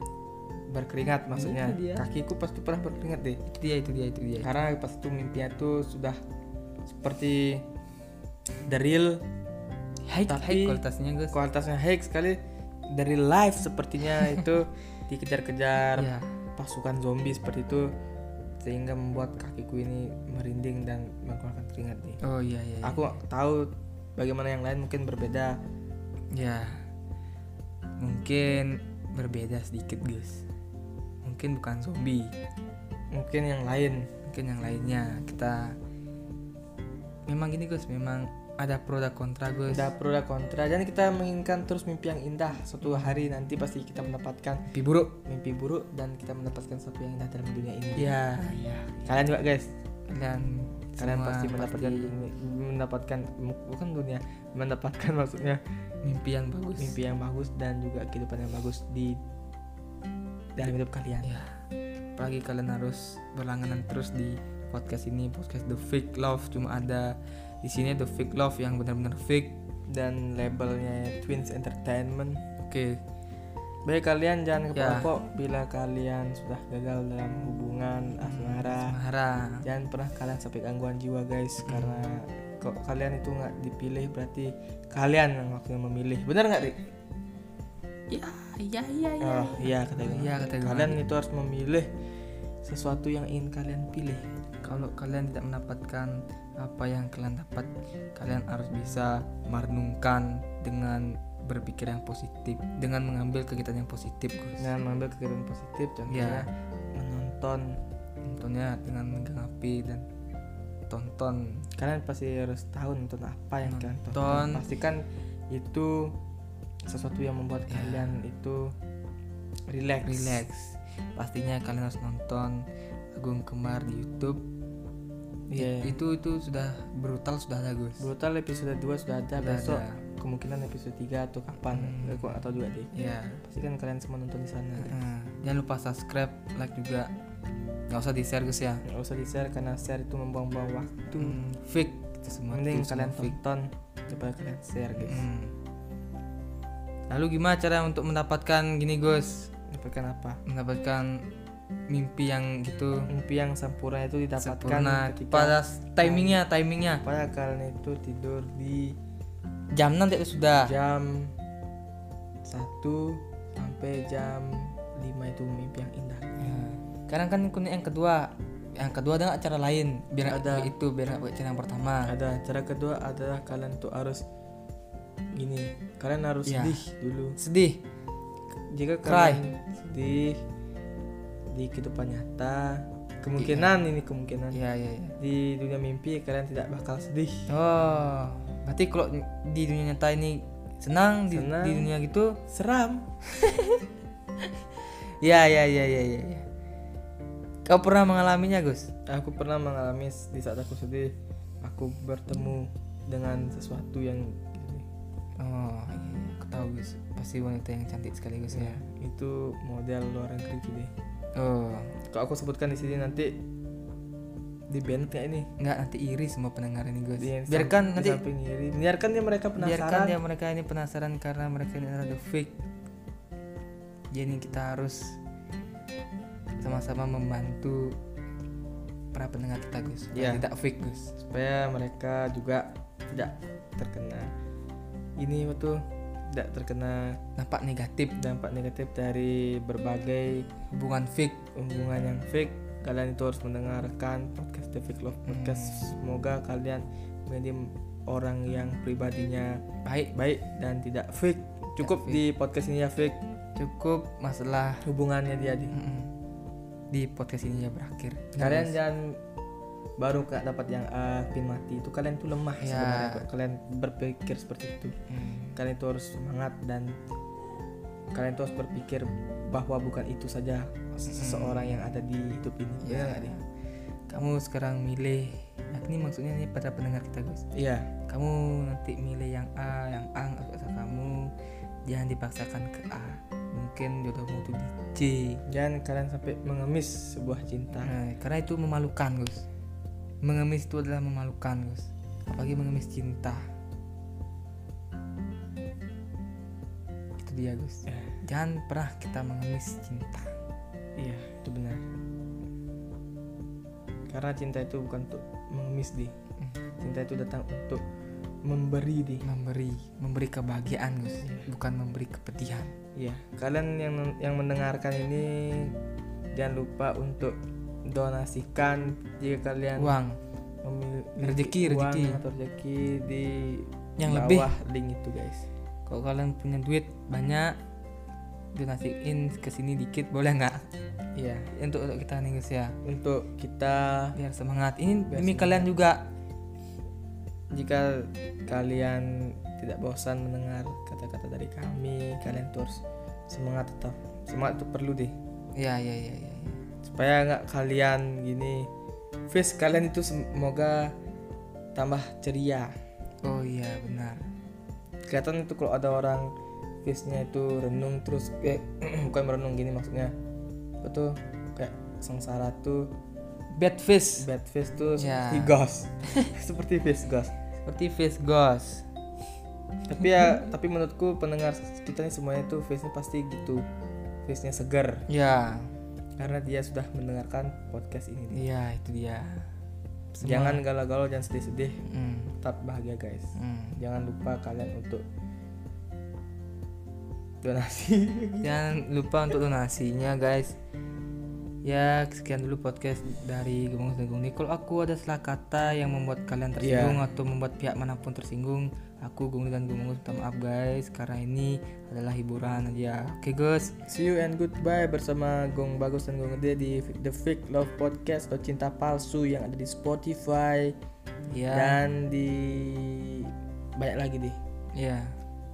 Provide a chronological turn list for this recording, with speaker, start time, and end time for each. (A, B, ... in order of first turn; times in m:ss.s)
0:00.7-0:03.4 A
0:01.3-0:02.0 B
0:03.5-0:04.5 B
0:04.4-0:06.2 A
0:06.9-0:07.6 A
0:08.6-0:09.2 A
0:10.1-0:11.4 B
0:10.3-0:10.8 A
0:11.3-0:17.9 A
0:16.0-0:16.3 B
0:18.6-0:22.2 A
0:22.2-0:23.1 B
0:22.8-0:25.6 A
0:26.3-0:26.8 B
0:28.0-0:30.4 B
0:31.2-0:32.3 B
0:33.1-0:34.1 A
0:34.3-0:35.8 B
0:37.3-0:39.9 B
0:39.7-0:44.7 A
0:42.8-0:43.3 B
0:44.7-0:45.2 B
0:45.2-0:48.2 A
0:48.0-0:49.2 B
0:49.1-0:49.7 A
0:50.1-0:52.1 B
0:51.0-0:55.6 A
0:56.0-0:57.0 B
0:56.8-0:59.2 A
1:00.6-1:01.3 A
1:01.2-1:01.6 B
1:02.2-1:09.6 B
1:09.9-1:12.4 A
1:12.6-1:13.0 B
1:13.9-1:18.9 A
1:14.8-1:15.1 B
1:18.2-1:19.6 B
1:19.6-1:26.9 A
1:21.6-1:22.0 B
1:28.1-1:31.0 B
1:29.2-1:31.9 A
1:32.6-1:34.2 A
1:34.6-1:44.7 B
1:44.6-1:47.8 A
1:46.1-1:46.4 B
1:48.2-1:50.1 B
1:50.9-1:51.7 B
1:51.8-1:56.2 A
1:53.6-1:54.7 B
1:56.9-1:58.7 A
1:57.7-1:58.2 B
1:59.7-2:00.4 A
2:00.0-2:04.4 B
2:05.5-2:06.0 A
2:05.6-2:08.0 B
2:08.0-2:12.9 A
2:09.4-2:10.0 B
2:11.7-2:12.4 B
2:12.9-2:13.4 B
2:13.4-2:15.0 A
2:14.8-2:17.1 B
2:17.9-2:18.8 B
2:18.8-2:21.4 A
2:21.1-2:23.4 B
2:22.5-2:25.2 A
2:25.0-2:25.6 B
2:27.1-2:29.5 B
2:29.7-2:30.4 A
2:30.5-2:31.3 B
2:31.9-2:33.1 B
2:33.1-2:36.4 A
2:34.4-2:37.0 B
2:37.0-2:39.0 A
2:39.7-2:40.7 B
2:40.6-2:41.3 A
2:42.4-2:46.5 A
2:46.4-2:52.1 B
2:50.2-2:50.8 A
2:52.1-2:54.2 A
2:55.4-2:57.4 A
2:56.5-2:56.8 B
2:57.4-2:57.8 B
2:58.7-3:00.4 A
2:59.0-2:59.4 B
3:01.5-3:04.6 A
3:03.4-3:03.7 B
3:04.5-3:05.2 B
3:05.2-3:07.5 A
3:07.5-3:12.4 B
3:11.3-3:11.9 A
3:12.5-3:13.1 A
3:13.3-3:13.8 B
3:15.2-3:16.4 B
3:17.7-3:18.9 B
3:19.1-3:21.1 A
3:21.6-3:24.9 A
3:25.4-3:28.8 B
3:28.5-3:30.9 A
3:31.4-3:32.0 B
3:32.1-3:33.4 A
3:34.7-3:35.5 A
3:35.6-3:38.2 B
3:37.2-3:40.2 A
3:39.6-3:42.6 B
3:44.1-3:45.2 B
3:46.6-3:48.0 B
3:49.1-3:51.1 B
3:50.1-3:50.4 A
3:51.2-3:54.3 A
3:55.2-3:57.2 A
3:57.4-3:58.2 B
3:58.2-4:00.5 A
4:00.7-4:01.4 B
4:01.6-4:09.6 A
4:05.3-4:06.0 B
4:09.8-4:10.1 B
4:10.1-4:13.2 A
4:11.8-4:12.2 B
4:13.6-4:14.8 B
4:14.8-4:15.8 A
4:15.7-4:16.1 B
4:16.9-4:18.8 B
4:18.4-4:19.2 A
4:20.0-4:24.9 A
4:22.6-4:23.3 B
4:25.1-4:25.6 B
4:25.6-4:27.0 A
4:28.1-4:33.4 A
4:31.1-4:31.8 B
4:32.8-4:33.4 B
4:34.1-4:37.4 B
4:37.6-4:37.9 A
4:38.1-4:41.3 B
4:41.9-4:45.4 B
4:45.5-4:48.0 A
4:47.8-4:49.5 B
4:50.2-4:53.5 B
4:57.2-5:00.3 B
4:57.9-4:58.1 A
5:01.0-5:01.8 A
5:04.1-5:06.1 A
5:06.8-5:07.8 A
5:08.5-5:09.3 A
5:09.2-5:12.7 B
5:13.0-5:15.8 A
5:16.3-5:17.4 A
5:17.9-5:20.0 A
5:19.8-5:20.2 B
5:20.6-5:25.5 A
5:21.2-5:22.2 B
5:24.0-5:24.5 B
5:25.9-5:27.6 B
5:28.5-5:30.7 B
5:31.2-5:31.5 A
5:31.5-5:32.8 B
5:32.8-5:34.2 A
5:34.2-5:36.1 B
5:35.1-5:35.7 A
5:37.5-5:45.1 A
5:45.6-5:46.6 B
5:46.8-5:48.7 A
5:49.3-5:50.9 A
5:51.8-5:52.7 A
5:53.2-5:54.3 B
5:55.1-5:56.3 A
5:56.8-6:00.1 A
6:00.8-6:02.9 A
6:03.5-6:04.3 B
6:04.2-6:07.3 A
6:05.0-6:06.3 B
6:07.6-6:08.9 B
6:09.9-6:13.6 A
6:10.0-6:10.5 B
6:14.3-6:15.1 A
6:15.1-6:15.7 B
6:16.2-6:18.4 A
6:18.3-6:19.5 B
6:20.2-6:20.6 B
6:20.2-6:21.8 A
6:21.8-6:22.3 B
6:22.4-6:25.0 A
6:23.4-6:23.8 B
6:27.4-6:28.6 A
6:28.4-6:30.6 B
6:31.6-6:43.8 B
6:36.6-6:37.0 A
6:43.9-6:50.8 A
6:51.3-6:51.8 B
6:51.5-6:54.4 A
6:54.7-6:55.2 B